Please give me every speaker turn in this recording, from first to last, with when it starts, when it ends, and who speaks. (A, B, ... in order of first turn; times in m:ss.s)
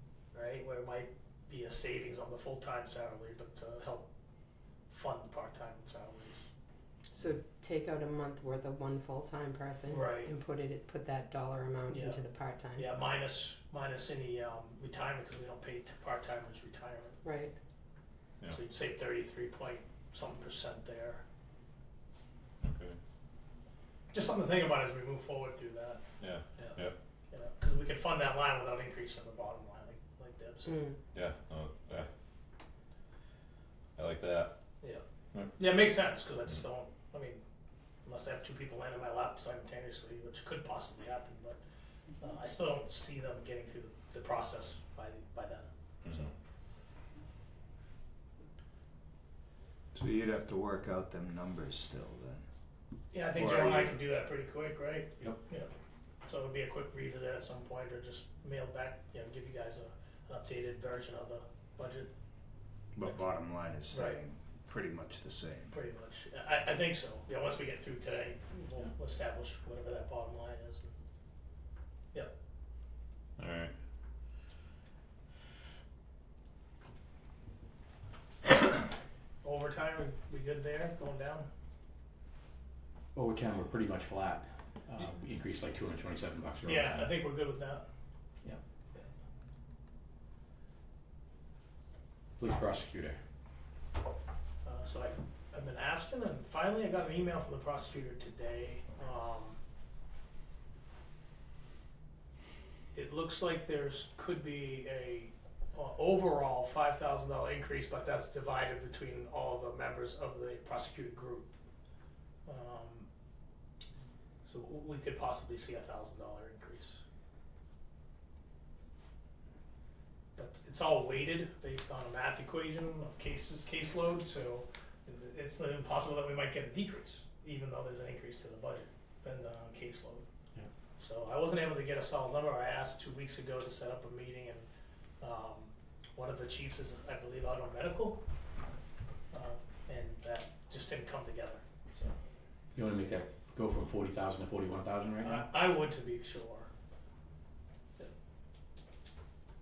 0:00.3-0:04.1 A
0:04.9-0:06.5 A
0:07.1-0:12.9 B
0:09.9-0:10.3 A
0:11.9-0:12.2 A
0:12.8-0:17.2 A
0:17.2-0:17.5 B
0:18.5-0:21.2 A
0:22.6-0:23.0 C
0:24.1-0:26.0 A
0:26.2-0:27.0 C
0:27.3-0:30.9 A
0:30.7-0:31.0 B
0:31.1-0:32.1 C
0:34.0-0:34.5 C
0:35.6-0:37.4 A
0:38.0-0:41.6 A
0:42.2-0:46.3 A
0:46.0-0:46.3 C
0:49.9-0:52.5 D
0:53.1-0:55.7 A
0:53.3-0:54.0 D
0:56.2-1:02.1 A
1:03.0-1:05.8 D
1:03.9-1:04.2 A
1:05.7-1:10.9 A
1:13.4-1:13.7 C
1:19.4-1:21.5 A
1:23.2-1:27.2 E
1:26.6-1:27.9 A
1:32.4-1:33.2 E
1:34.6-1:39.6 A
1:42.9-1:51.5 A
1:52.5-1:53.1 A
1:54.4-1:57.0 A
2:00.4-2:10.3 A
2:11.0-2:14.7 A
2:15.2-2:18.2 A
2:19.3-2:22.1 A
2:22.8-2:25.5 E
2:25.2-2:26.7 A